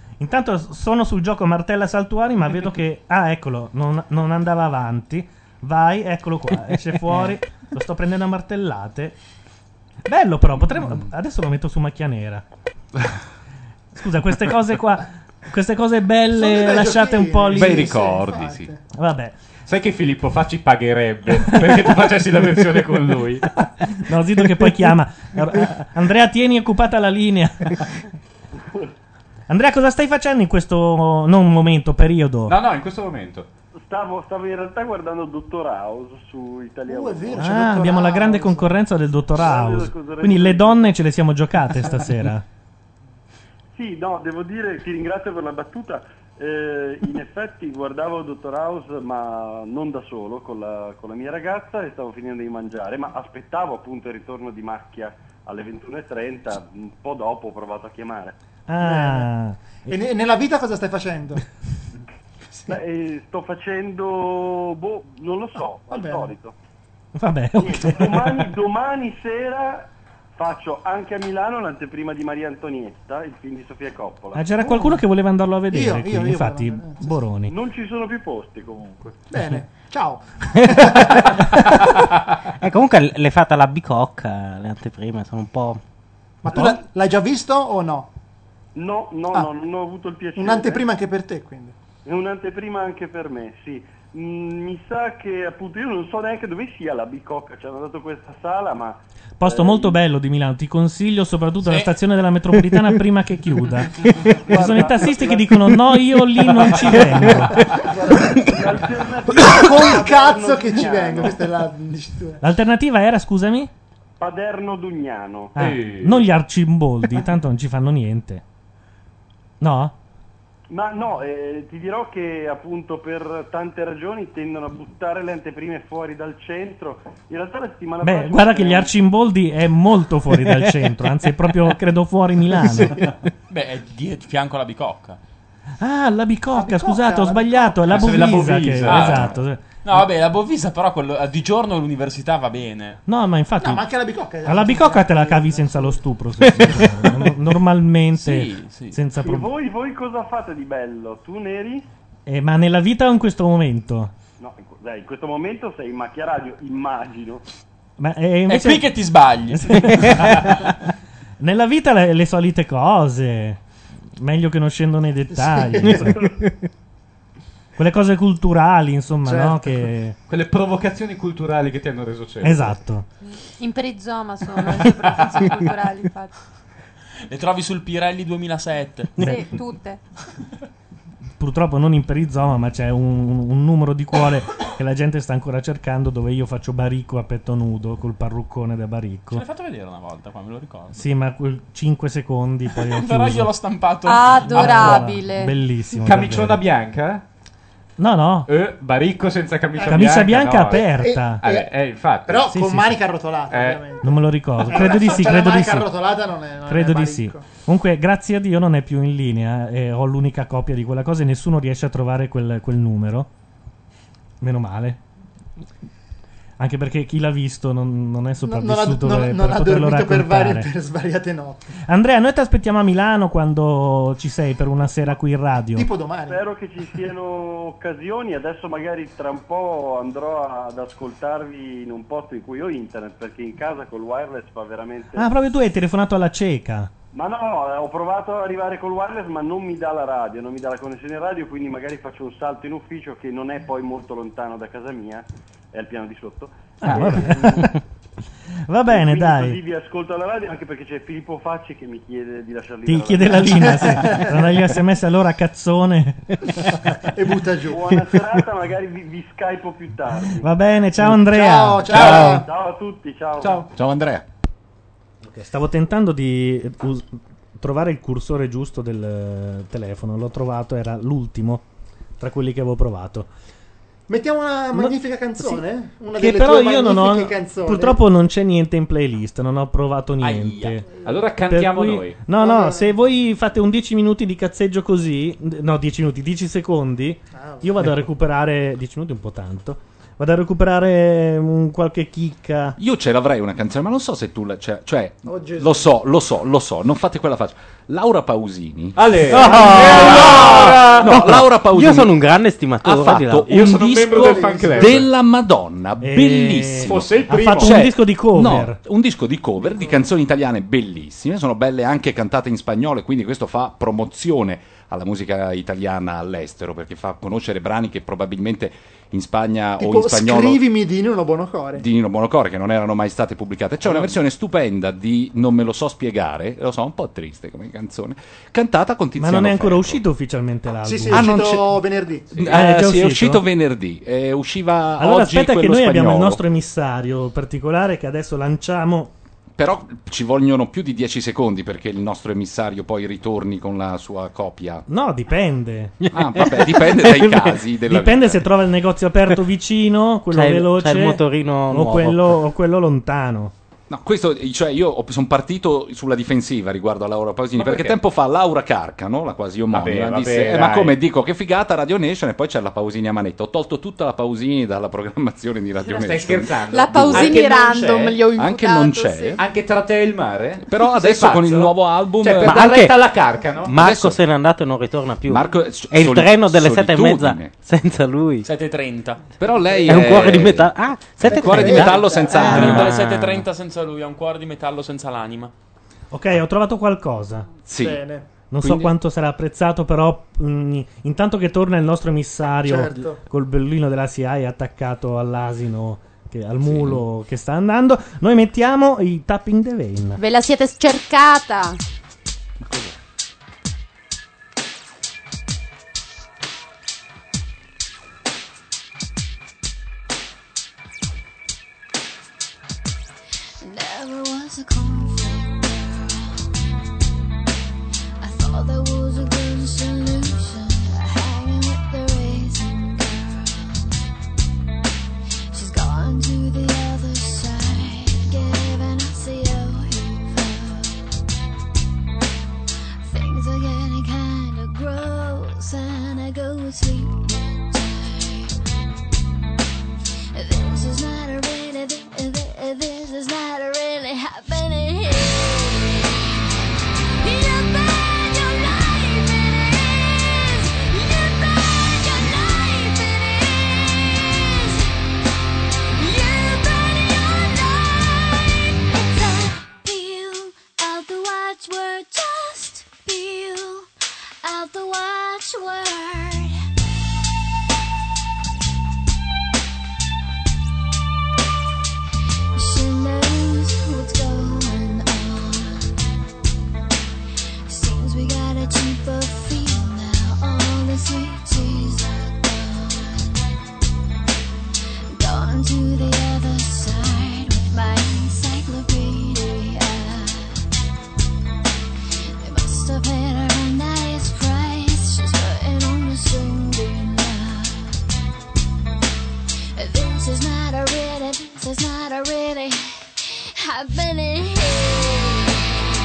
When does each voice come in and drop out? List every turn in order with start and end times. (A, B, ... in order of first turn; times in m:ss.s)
0:00.2-0:09.2 A
0:10.1-0:12.4 A
0:13.9-0:17.9 A
0:16.4-0:18.8 B
0:17.6-0:18.7 C
0:18.9-0:19.4 A
0:19.7-0:23.5 C
0:24.0-0:27.8 A
0:28.6-0:28.9 D
0:29.5-0:32.6 A
0:32.5-0:33.5 C
0:33.8-0:37.5 D
0:36.9-0:38.7 B
0:37.4-0:42.4 A
0:39.4-0:40.9 D
0:43.7-0:58.4 D
0:58.7-0:59.9 A
0:58.8-0:59.3 B
0:59.9-1:01.4 B
1:02.7-1:06.5 D
1:05.9-1:06.3 B
1:07.2-1:08.5 A
1:07.6-1:14.5 D
1:14.4-1:17.5 A
1:14.6-1:15.0 B
1:15.7-1:17.1 B
1:17.5-1:19.2 D
1:19.3-1:21.8 B
1:20.7-1:21.4 E
1:22.6-1:25.8 E
1:26.4-1:28.1 B
1:28.8-1:30.8 D
1:30.4-1:31.8 B
1:32.1-1:40.0 D
1:39.4-1:47.7 A
1:44.5-1:45.6 D
1:47.7-1:48.6 B
1:48.1-1:51.4 D
1:49.3-1:52.4 B
1:52.4-1:53.7 A
1:54.2-1:55.5 D
1:55.6-1:58.4 A
1:55.6-1:56.2 C
1:59.6-1:59.9 A
2:00.7-2:08.9 D
2:08.0-2:13.1 A
2:10.4-2:10.9 E
2:13.5-2:15.2 F
2:15.8-2:19.6 A
2:16.6-2:18.2 B
2:17.9-2:19.4 C
2:18.8-2:23.0 F
2:23.1-2:23.9 A
2:23.6-2:26.0 B
2:24.4-2:29.5 A
2:28.2-2:29.0 F
2:29.2-2:31.8 D
2:32.3-2:34.1 A
2:34.4-2:37.4 D
2:38.0-2:38.9 A
2:38.5-2:40.7 F
2:39.7-2:40.5 A
2:41.4-2:43.6 A
2:44.2-2:46.2 A
2:45.4-2:46.2 B
2:46.2-2:46.5 E
2:47.8-2:50.2 A
2:49.2-2:49.8 B
2:50.3-2:52.8 C
2:52.4-2:53.1 A
2:53.2-2:56.3 G
2:57.3-2:59.3 F
2:59.2-3:00.0 G
3:01.4-3:09.4 A
3:09.3-3:11.0 F
3:10.9-3:13.5 A
3:12.9-3:15.1 F
3:14.0-3:15.5 G
3:14.5-3:16.6 A
3:16.0-3:17.2 C
3:18.0-3:18.5 A
3:18.5-3:22.5 C
3:19.8-3:21.4 A
3:20.9-3:21.7 B
3:22.3-3:24.1 B
3:22.5-3:23.0 A
3:23.5-3:23.8 C
3:24.0-3:25.9 A
3:24.7-3:27.4 B
3:26.7-3:33.3 A
3:34.4-3:35.0 A
3:36.6-3:40.7 A
3:38.4-3:41.7 B
3:41.9-3:45.9 A
3:45.8-3:46.4 B
3:46.3-3:55.3 D
3:55.2-3:56.9 A
3:57.1-4:07.7 D
4:06.8-4:07.7 A
4:08.7-4:09.6 A
4:08.9-4:13.9 D
4:12.9-4:16.4 A
4:13.4-4:14.5 B
4:16.9-4:18.0 B
4:17.7-4:20.5 D
4:20.4-4:22.4 A
4:21.0-4:22.5 B
4:22.2-4:23.7 D
4:23.4-4:24.2 H
4:25.2-4:31.6 A
4:32.2-4:33.3 A
4:34.1-4:38.0 B
4:34.7-4:35.6 A
4:36.2-4:40.9 A
4:40.2-4:40.8 F
4:41.0-4:42.2 C
4:41.5-4:52.8 A
4:42.4-4:43.0 B
4:47.4-4:47.9 B
4:52.8-5:02.2 H
4:55.3-4:55.9 B
4:59.0-5:01.2 C
4:59.3-5:03.6 E
5:02.8-5:20.6 H
5:03.4-5:05.1 C
5:04.2-5:04.9 B
5:06.0-5:08.8 A
5:06.8-5:07.8 C
5:09.6-5:10.0 B
5:19.8-5:21.8 B
5:21.8-5:30.0 H
5:29.2-5:31.4 A
5:30.8-5:32.5 B
5:31.1-5:31.8 H
5:32.3-5:36.4 H
5:32.5-5:33.4 A
5:35.0-5:39.1 A
5:39.6-5:44.9 H
5:44.9-5:46.0 A
5:46.0-5:47.5 E
5:46.1-5:48.4 H
5:47.9-5:53.5 A
5:50.3-5:52.4 E
5:53.9-6:07.4 H
5:57.6-5:58.0 C
5:59.7-6:01.0 C
6:05.8-6:08.2 C
6:06.7-6:09.4 G
6:08.3-6:09.4 H
6:09.4-6:13.8 C
6:10.6-6:12.8 H
6:12.4-6:13.2 E
6:13.7-6:14.2 H
6:13.7-6:18.5 E
6:15.3-6:17.5 H
6:18.4-6:19.2 F
6:19.4-6:22.9 H
6:19.8-6:20.3 C
6:19.8-6:23.4 E
6:21.3-6:22.5 B
6:21.4-6:22.8 C
6:22.3-6:25.5 F
6:26.1-6:27.5 A
6:27.7-6:28.0 H
6:27.8-6:28.3 B
6:28.5-6:40.2 A
6:28.6-6:28.9 H
6:32.7-6:33.2 B
6:40.2-6:41.8 G
6:53.6-6:56.5 I
6:58.2-7:04.0 I
7:05.5-7:11.2 I
7:13.0-7:18.6 I
7:20.3-7:26.4 I
7:27.2-7:34.9 I
7:36.0-7:43.9 I
7:44.4-7:46.6 I
7:52.5-7:55.9 I
7:57.7-8:03.4 I
8:05.1-8:10.6 I
8:12.4-8:18.0 I
8:19.8-8:25.8 I